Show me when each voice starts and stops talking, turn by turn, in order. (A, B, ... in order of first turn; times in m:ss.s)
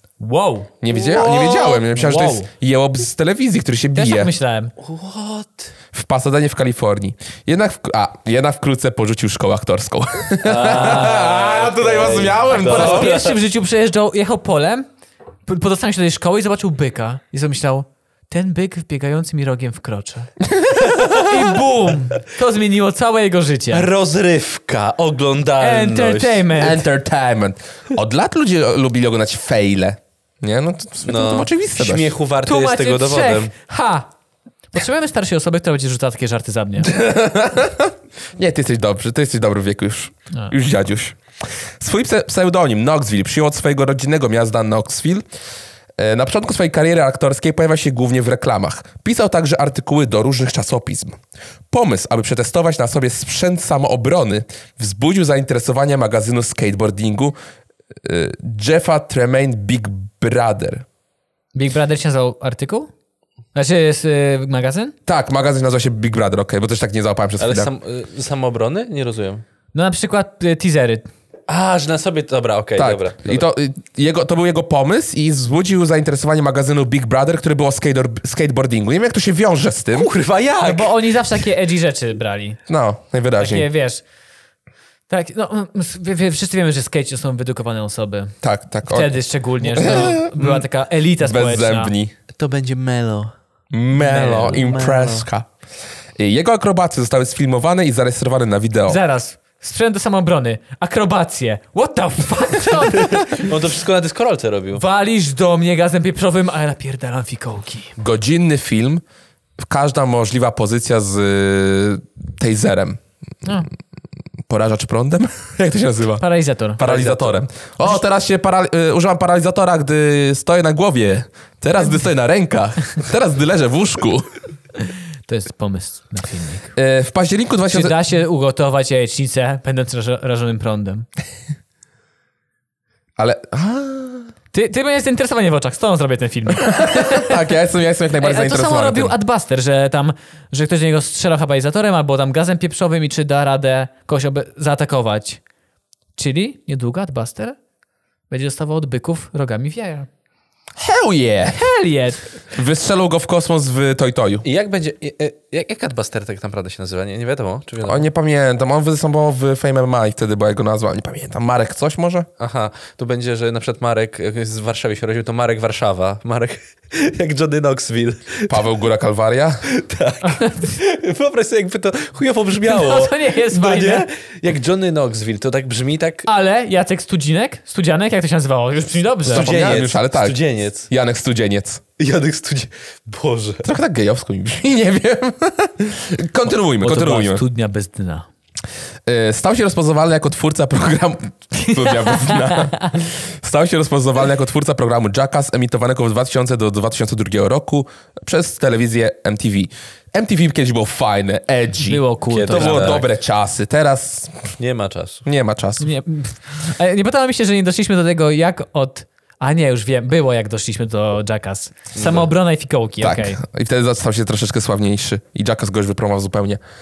0:00.2-0:02.5 A
0:00.8-0:04.3 B
0:04.0-0:04.7 A
0:04.8-0:05.7 C
0:05.9-0:13.2 B
0:10.4-0:13.4 C
0:10.5-0:11.4 A
0:12.5-0:14.9 A
0:15.5-0:20.3 A
0:20.6-0:21.5 B
0:21.0-0:23.9 A
0:23.7-0:26.5 C
0:25.6-0:26.8 A
0:26.6-0:32.1 B
0:31.0-0:33.5 C
0:32.4-0:34.1 A
0:34.7-0:36.9 A
0:36.8-0:41.2 B
0:41.8-0:45.2 B
0:46.0-0:51.2 B
0:51.7-0:57.4 B
0:58.0-1:00.8 B
1:01.6-1:02.9 A
1:03.5-1:04.9 A
1:05.1-1:07.7 B
1:07.4-1:09.4 C
1:09.7-1:11.1 A
1:11.5-1:13.5 C
1:12.8-1:20.1 B
1:20.0-1:21.4 C
1:20.6-1:22.6 A
1:22.7-1:23.7 B
1:23.4-1:24.0 A
1:25.1-1:31.9 A
1:28.4-1:30.7 B
1:31.2-1:32.1 B
1:32.3-1:33.3 C
1:33.7-1:35.5 B
1:34.0-1:34.6 A
1:34.5-1:35.3 C
1:36.2-1:39.0 B
1:38.9-1:43.6 A
1:43.4-1:44.8 C
1:44.8-1:47.9 A
1:48.0-1:49.0 B
1:49.6-1:53.0 B
1:54.5-1:56.2 B
1:56.2-1:57.3 A
1:56.8-2:04.3 B
2:05.3-2:06.7 A
2:06.8-2:08.0 B
2:07.7-2:11.1 A
2:13.2-2:14.3 B
2:14.5-2:17.5 A
2:16.7-2:19.2 B
2:18.2-2:25.4 A
2:26.2-2:27.6 A
2:28.3-2:30.1 A
2:30.8-2:31.6 B
2:31.5-2:32.3 A
2:32.5-2:34.4 B
2:34.4-2:38.0 C
2:37.8-2:42.3 B
2:42.4-2:48.6 C
2:48.5-2:49.6 B
2:49.7-2:56.3 C
2:50.2-2:50.7 A
2:52.6-2:54.1 A
2:56.3-2:59.6 A
2:59.2-3:00.9 C
2:59.3-3:01.8 B
3:02.0-3:03.7 C
3:03.6-3:07.4 B
3:06.8-3:08.3 A
3:09.1-3:24.6 B
3:11.6-3:12.9 A
3:21.8-3:23.1 A
3:22.3-3:23.0 C
3:24.6-3:25.2 C
3:25.2-3:25.9 B
3:25.8-3:33.4 A
3:32.0-3:32.3 C
3:33.0-3:36.6 B